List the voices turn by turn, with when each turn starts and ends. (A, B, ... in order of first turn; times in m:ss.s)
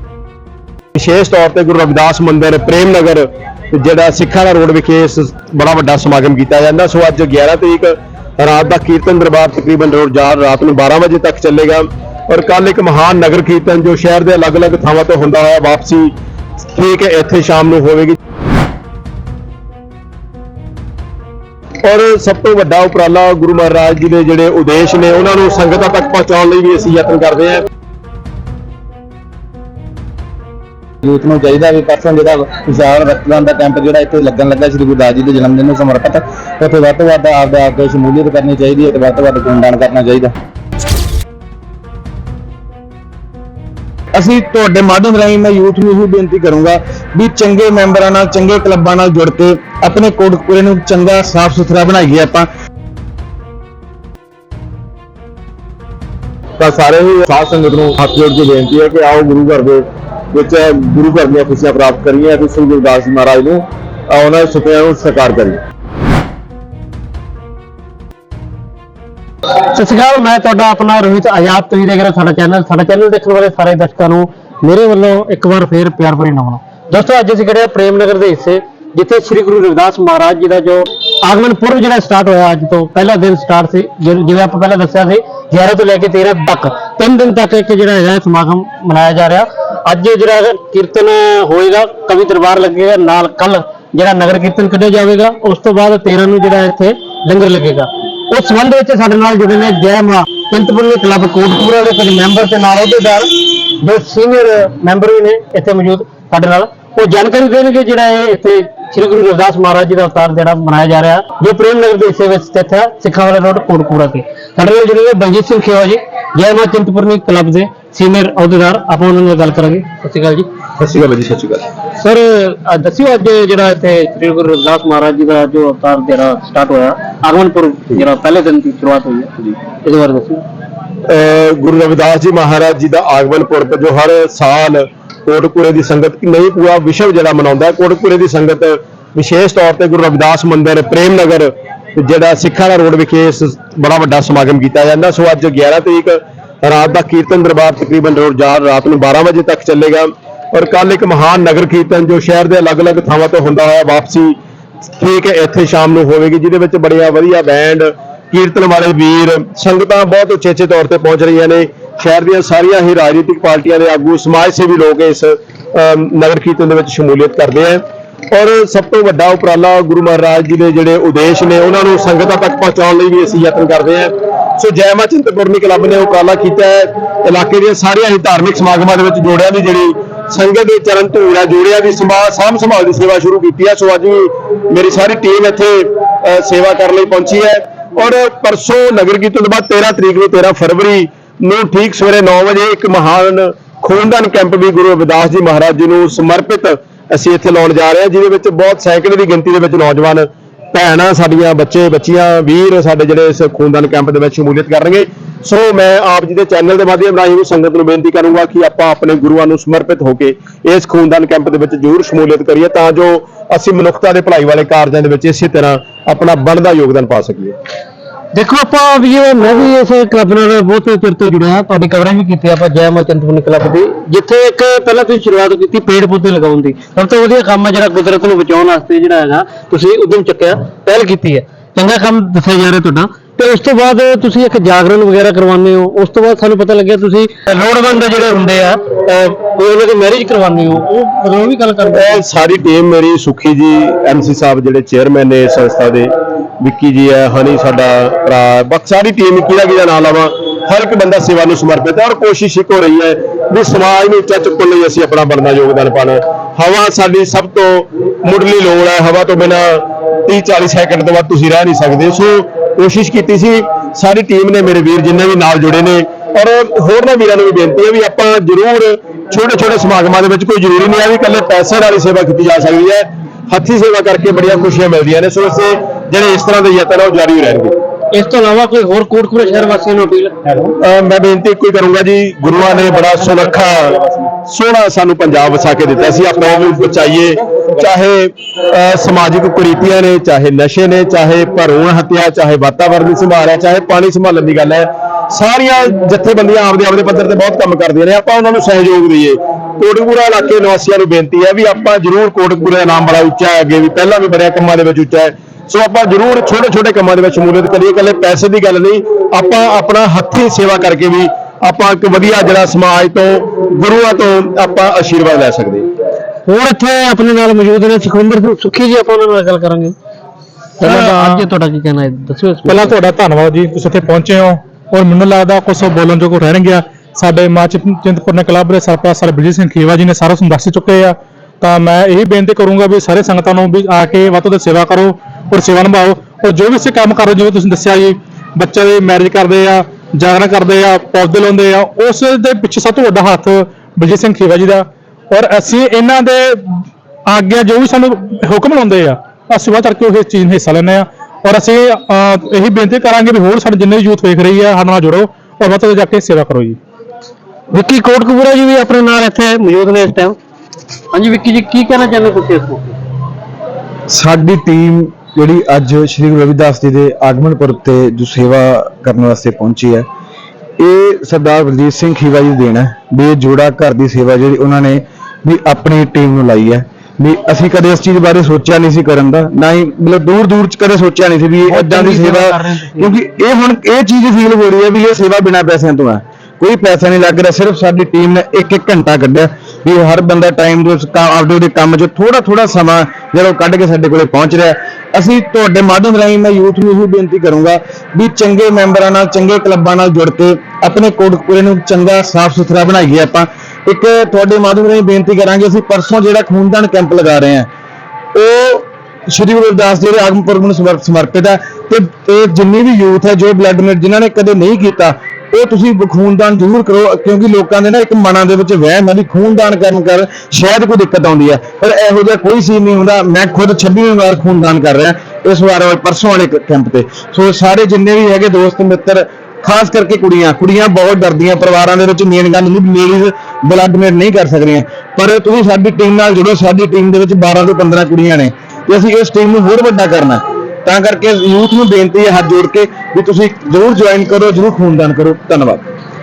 0:01.0-0:16.1 A
0:16.6-0:18.2 A
0:21.8-0:27.6 A
0:31.0-0:40.3 B
0:44.2-0:52.5 B
0:56.6-1:05.6 B
1:09.6-2:00.5 C
2:00.8-2:01.6 A
2:02.0-2:10.4 C
2:11.1-2:34.4 A
2:35.0-3:37.6 A
3:38.3-4:02.2 C
4:01.9-4:37.8 A
4:38.1-4:40.7 C
4:40.8-5:15.9 A
5:16.5-5:20.0 C
5:20.8-5:22.9 C
5:20.8-5:21.4 D
5:22.7-5:56.8 D
5:57.7-6:00.4 C
6:01.1-6:03.0 C
6:04.1-6:10.1 B
6:10.8-6:47.7 B
6:21.7-6:23.1 C
6:48.3-7:25.8 B